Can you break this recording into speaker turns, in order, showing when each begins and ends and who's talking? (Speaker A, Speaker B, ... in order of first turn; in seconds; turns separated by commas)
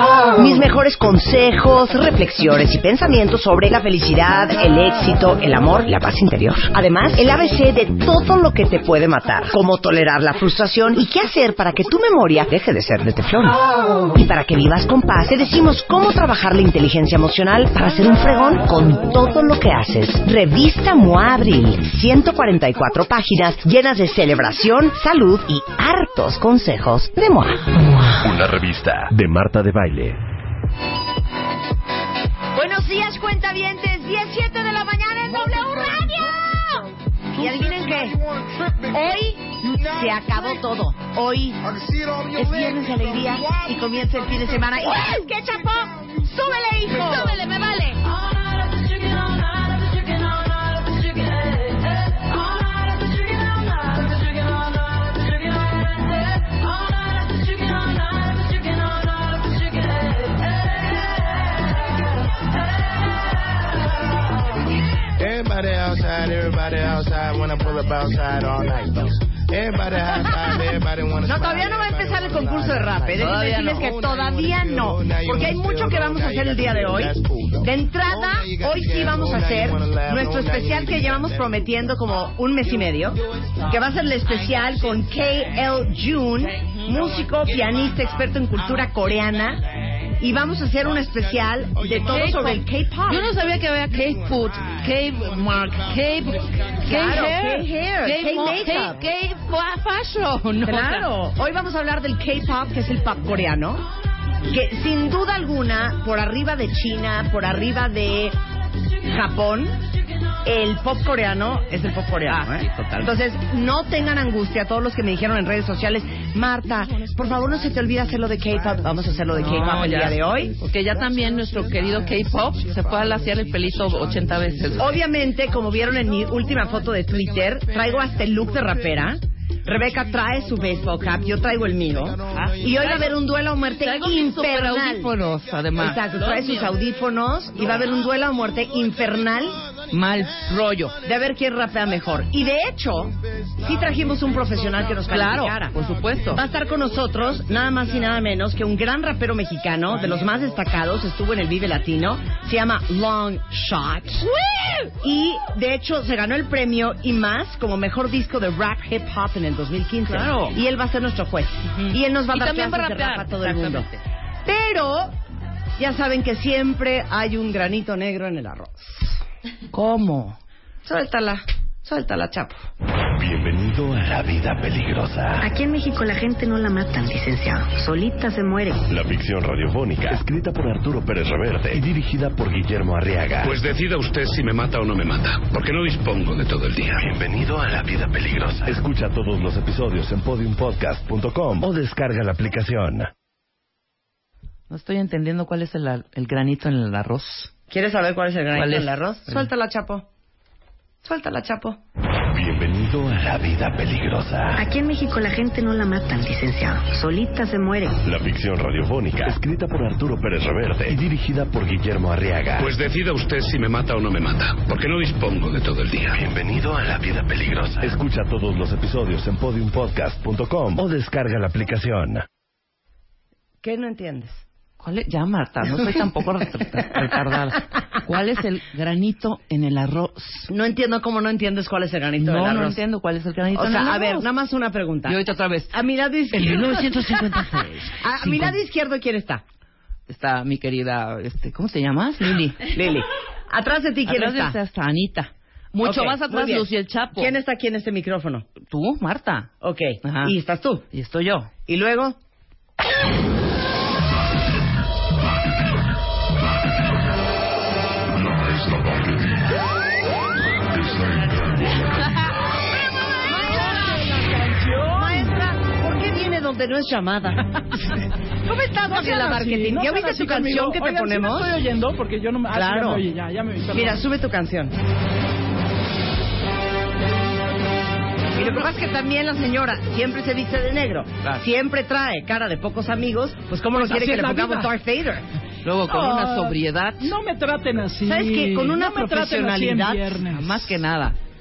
Speaker A: 0.4-13.6, Speaker A: 14.1-28.3, Speaker B: 28.2-30.2, Speaker A: 32.5-38.2, Speaker A: 38.9-41.6, Speaker A: 42.3-47.4, Speaker C: 44.9-45.2, Speaker C: 46.9-48.0, Speaker D: 65.5-68.5, Speaker A: 68.6-69.2, Speaker D: 69.7-70.0, Speaker A: 70.3-70.5, Speaker D: 71.0-71.6, Speaker A: 71.2-89.6, Speaker C: 73.2-74.0, Speaker D: 80.2-80.7, Speaker A: 90.2-93.3, Speaker C: 92.1-101.1, Speaker A: 96.8-99.0, Speaker A: 100.6-103.8, Speaker A: 104.5-108.4, Speaker A: 109.1-109.8, Speaker A: 110.5-120.5, Speaker C: 112.2-113.1, Speaker C: 119.4-125.0, Speaker A: 124.8-135.2, Speaker C: 132.3-133.1, Speaker C: 133.8-136.8, Speaker A: 135.8-139.6, Speaker C: 139.9-141.0, Speaker A: 141.0-145.8, Speaker C: 145.1-146.4, Speaker A: 146.3-154.3, Speaker C: 154.2-154.9, Speaker A: 155.0-163.9, Speaker C: 160.1-160.6, Speaker C: 161.7-164.0, Speaker A: 164.4-165.1, Speaker A: 165.8-169.2, Speaker C: 169.7-170.4, Speaker A: 170.8-172.6, Speaker B: 173.2-175.5, Speaker E: 175.4-178.8, Speaker B: 178.9-183.6, Speaker F: 183.4-187.1, Speaker B: 187.0-193.1, Speaker C: 194.7-197.5, Speaker A: 197.7-200.1, Speaker C: 198.5-199.5, Speaker A: 201.0-201.8, Speaker B: 202.3-204.6, Speaker E: 204.6-208.0, Speaker B: 208.1-212.7, Speaker F: 212.6-216.2, Speaker B: 216.1-222.3, Speaker A: 223.6-224.4, Speaker C: 224.8-230.5, Speaker A: 230.5-232.8, Speaker C: 232.2-234.3, Speaker A: 233.5-237.4, Speaker C: 235.1-235.8, Speaker C: 236.3-238.6, Speaker A: 238.0-239.4, Speaker C: 240.1-242.7, Speaker A: 242.7-244.6, Speaker C: 244.1-247.3, Speaker A: 245.8-248.5, Speaker C: 248.7-249.5, Speaker A: 249.6-250.8, Speaker C: 250.0-250.3, Speaker C: 250.9-251.5, Speaker A: 251.7-252.2, Speaker C: 261.4-262.0, Speaker G: 263.2-265.3, Speaker A: 263.4-263.8, Speaker A: 265.0-267.6, Speaker G: 267.6-268.0, Speaker A: 268.5-271.5, Speaker G: 268.8-274.1, Speaker A: 272.5-273.0, Speaker A: 273.7-274.8, Speaker A: 278.4-285.2, Speaker G: 283.8-284.7, Speaker C: 285.6-287.1, Speaker G: 285.9-290.8, Speaker A: 288.1-290.1, Speaker C: 290.3-291.2